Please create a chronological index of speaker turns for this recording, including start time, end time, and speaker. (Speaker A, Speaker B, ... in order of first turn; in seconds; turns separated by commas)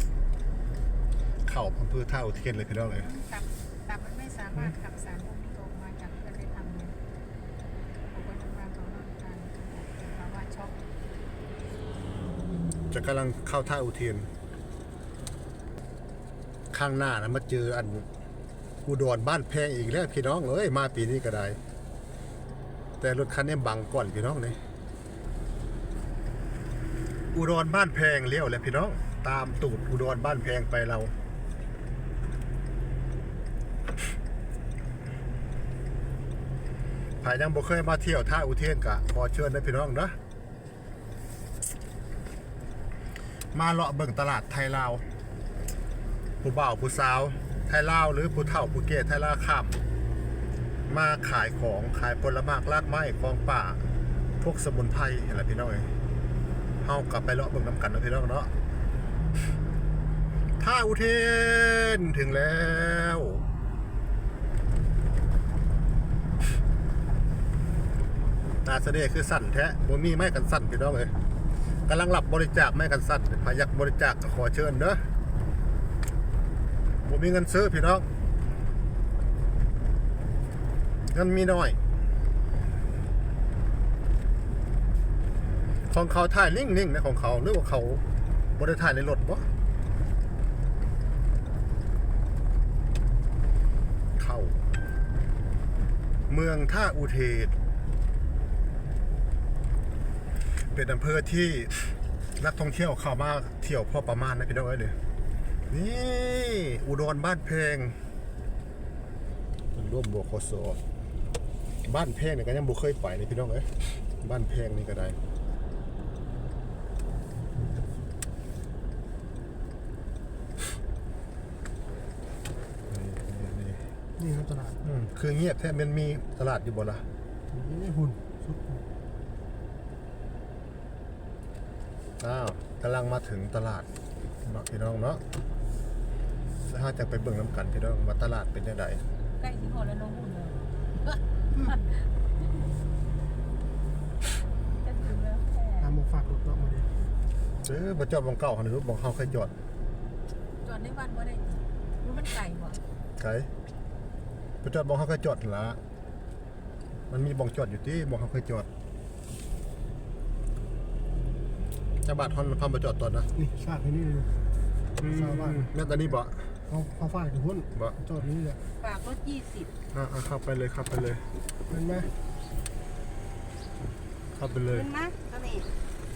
Speaker A: 1.4-3.1, Speaker B: 2.8-7.0, Speaker B: 8.1-10.8, Speaker A: 12.9-14.3, Speaker A: 16.7-18.1, Speaker A: 18.8-21.6, Speaker A: 23.0-24.6, Speaker A: 27.3-31.1, Speaker A: 37.2-40.1, Speaker A: 43.5-45.0, Speaker A: 46.4-49.7, Speaker A: 50.9-53.8, Speaker A: 54.4-55.9, Speaker A: 56.8-58.5, Speaker A: 60.6-63.4, Speaker A: 68.6-71.1, Speaker A: 71.9-75.0, Speaker A: 77.0-78.1, Speaker A: 81.1-81.8, Speaker A: 85.9-88.0, Speaker A: 88.5-89.5, Speaker A: 94.2-94.6, Speaker A: 96.3-97.5, Speaker A: 100.7-104.9, Speaker A: 105.7-108.0, Speaker A: 109.7-110.8, Speaker A: 111.8-115.2, Speaker A: 122.9-123.8, Speaker C: 124.3-124.5, Speaker A: 124.8-127.0, Speaker A: 132.2-133.9, Speaker A: 134.4-135.2, Speaker A: 136.7-139.0, Speaker B: 139.4-142.1, Speaker B: 144.7-146.1, Speaker C: 146.1-146.8, Speaker A: 147.6-149.5, Speaker B: 150.6-152.8, Speaker A: 153.2-153.5, Speaker A: 154.6-155.8, Speaker A: 157.1-158.7, Speaker A: 162.0-163.3, Speaker C: 163.6-164.2, Speaker A: 165.0-166.5, Speaker C: 167.0-167.5, Speaker A: 167.7-168.2, Speaker B: 168.8-169.7, Speaker A: 169.9-171.2, Speaker C: 171.8-172.0, Speaker A: 174.3-174.9, Speaker B: 174.7-175.7